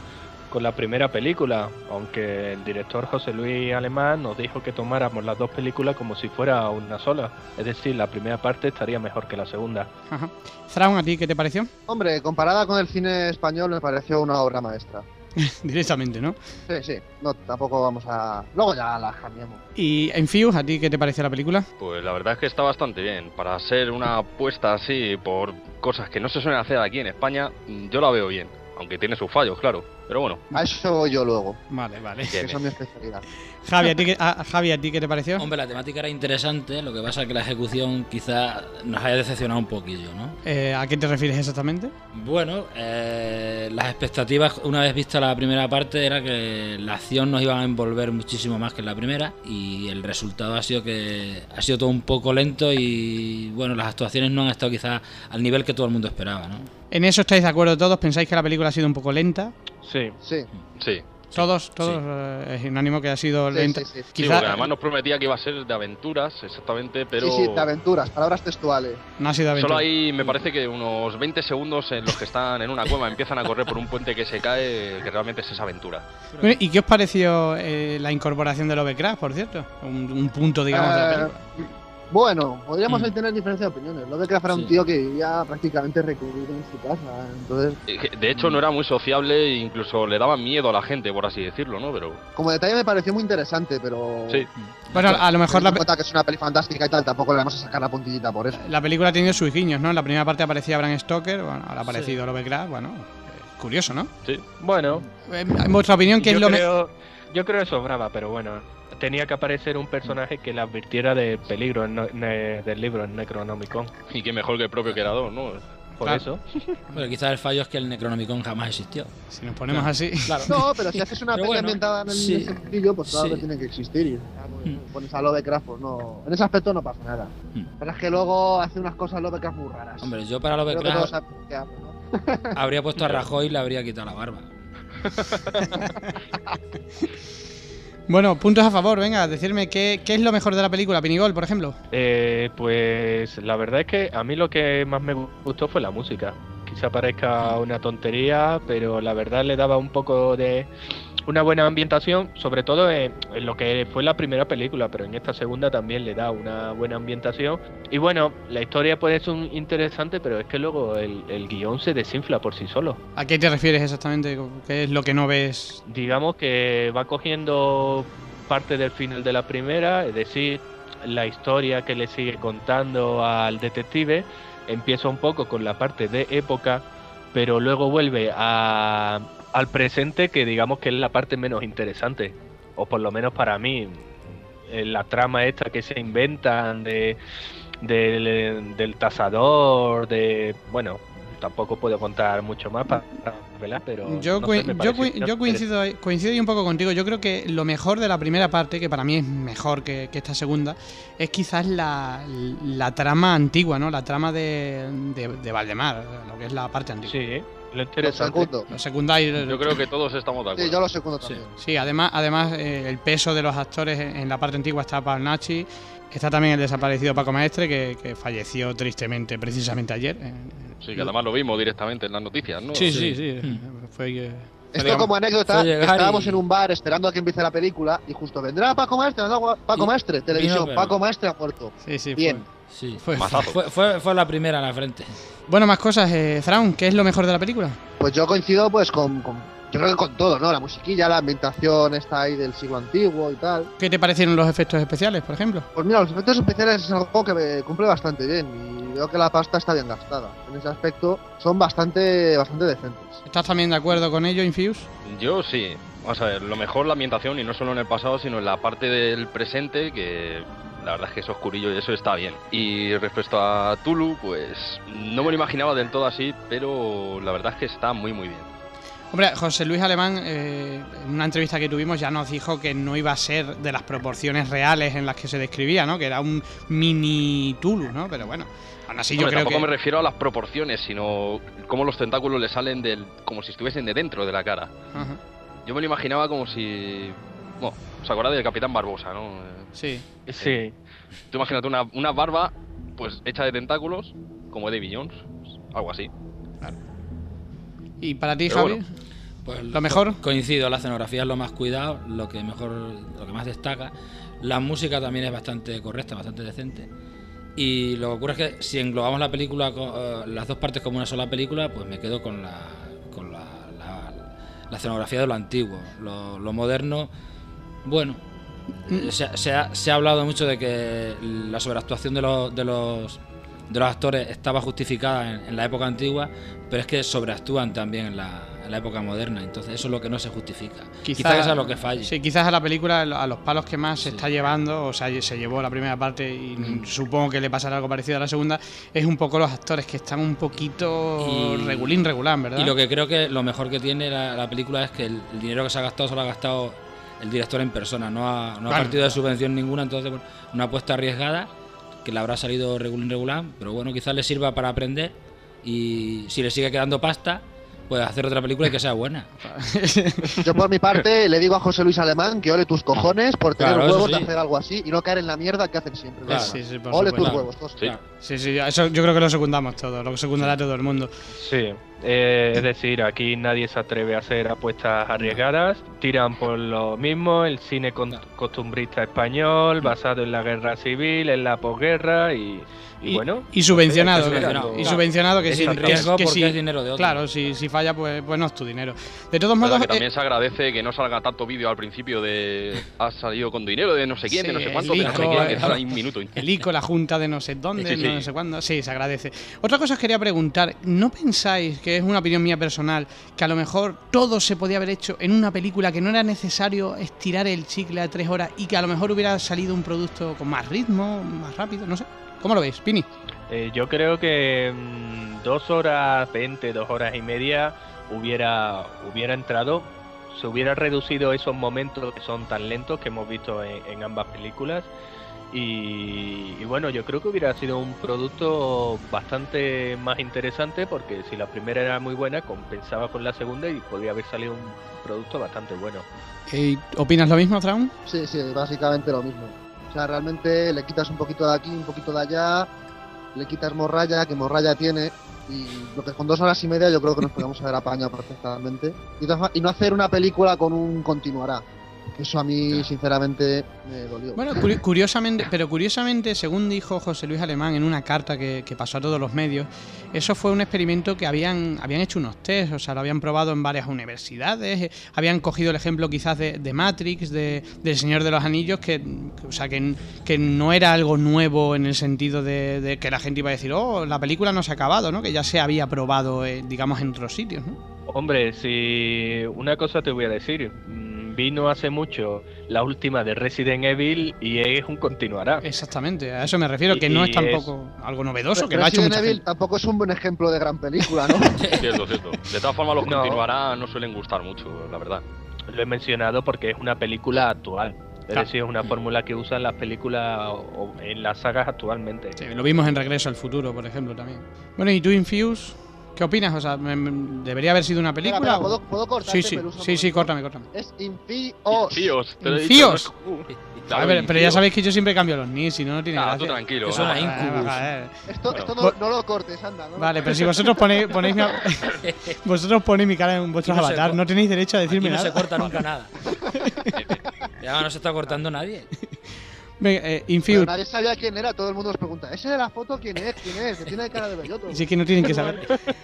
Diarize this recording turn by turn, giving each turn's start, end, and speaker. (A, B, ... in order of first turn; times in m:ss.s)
0:00.5-0:09.9 A
0:10.1-0:11.7 B
0:11.9-0:15.0 C
0:15.4-0:16.4 B
0:16.7-0:19.6 C
0:19.8-0:21.7 B
0:21.8-0:30.4 D
0:30.5-0:31.6 C
0:31.7-0:32.4 B
0:32.3-0:32.6 D
0:32.4-0:33.2 C
0:33.6-0:35.5 B
0:35.4-0:40.4 E
0:40.4-0:41.9 B
0:42.1-0:56.7 E
0:56.9-0:59.5 B
0:59.8-1:00.2 A
1:00.2-1:00.5 C
1:00.8-1:01.0 D
1:01.3-1:04.6 B
1:03.5-1:04.1 C
1:04.2-1:07.7 D
1:07.2-1:09.0 C
1:09.2-1:09.9 B
1:09.5-1:16.0 D
1:16.3-1:16.6 E
1:16.4-1:21.4 B
1:20.7-1:27.8 C
1:24.5-1:24.8 E
1:27.9-1:32.2 D
1:32.4-1:38.6 C
1:34.6-1:35.1 E
1:34.9-1:35.8 B
1:38.6-1:44.1 B
1:41.8-1:42.2 E
1:44.6-1:45.0 A
1:45.2-1:46.7 B
1:46.2-1:53.9 A
1:54.1-1:55.6 D
1:56.0-1:56.7 A
1:56.9-1:59.1 E
1:59.3-2:00.6 B
1:59.7-2:03.5 E
2:00.5-2:10.1 C
2:10.0-2:11.1 E
2:10.7-2:12.6 C
2:12.6-2:14.5 E
2:15.1-2:15.6 D
2:18.1-2:21.8 B
2:21.9-2:30.7 A
2:31.3-2:43.0 A
2:43.2-2:45.8 B
2:45.9-3:07.2 A
3:07.8-3:15.6 A
3:14.1-3:27.2 B
3:27.1-3:28.5 A
3:28.0-3:28.7 C
3:28.7-3:29.8 B
3:29.4-3:30.9 D
3:30.5-3:31.5 C
3:31.6-3:41.1 B
3:40.8-3:43.0 D
3:42.7-3:45.0 B
3:42.8-3:43.6 E
3:44.7-3:52.4 C
3:44.8-3:46.4 E
3:50.3-3:51.0 E
3:51.8-3:53.5 B
3:52.7-3:55.2 E
3:53.2-3:53.6 D
3:55.5-3:57.8 B
3:58.0-4:03.7 C
4:03.8-4:05.7 B
4:05.8-4:13.2 C
4:13.3-4:14.9 B
4:15.1-4:28.5 D
4:29.1-4:39.7 B
4:39.2-4:44.8 D
4:44.9-4:45.2 B
4:45.7-4:49.7 D
4:49.8-4:50.0 B
4:50.3-4:50.8 A
4:51.3-4:56.1 D
4:58.0-4:58.9 B
4:58.5-4:58.8 D
4:59.4-5:06.9 E
4:59.7-5:00.2 B
5:07.6-5:17.1 E
5:17.8-5:18.2 E
5:18.9-5:32.1 E
5:31.0-5:42.8 B
5:34.0-5:34.3 E
5:36.6-5:36.9 E
5:41.2-5:42.0 E
5:42.6-5:51.5 E
5:48.7-5:49.2 B
5:52.0-5:59.3 E
5:59.4-6:00.5 B
6:00.4-6:07.9 C
6:03.6-6:04.3 E
6:06.3-6:06.6 E
6:06.3-6:07.5 B
6:07.2-6:08.0 E
6:08.2-6:11.1 B
6:11.4-6:25.0 A
6:23.1-6:30.0 B
6:24.0-6:24.4 D
6:24.1-6:27.2 E
6:25.8-6:26.1 D
6:29.6-6:36.4 D
6:34.3-6:35.8 B
6:34.9-6:35.8 E
6:36.4-6:53.1 B
6:37.8-6:38.3 D
6:53.5-7:04.9 A
7:05.5-7:16.1 A
7:16.5-7:17.9 B
7:18.1-7:22.7 C
7:23.4-7:31.6 C
7:32.2-7:34.6 C
7:34.4-7:57.8 B
7:58.1-8:05.6 A
8:05.6-8:09.4 B
8:06.9-8:07.7 A
8:08.6-8:11.6 C
8:11.7-8:15.2 D
8:13.0-8:13.4 A
8:15.7-8:22.4 A
8:22.4-8:30.7 B
8:28.2-8:32.2 C
8:31.7-8:34.6 D
8:32.4-8:33.1 B
8:33.5-8:33.8 E
8:33.9-8:38.3 B
8:36.1-8:37.5 D
8:36.9-8:37.9 E
8:38.3-8:40.8 C
8:38.5-8:38.8 D
8:40.0-8:45.8 B
8:42.0-8:42.4 E
8:43.6-8:44.2 E
8:44.9-8:46.3 E
8:46.5-8:47.0 B
8:47.6-8:48.9 E
8:49.8-8:50.7 B
8:50.5-8:55.7 C
8:54.7-8:55.6 B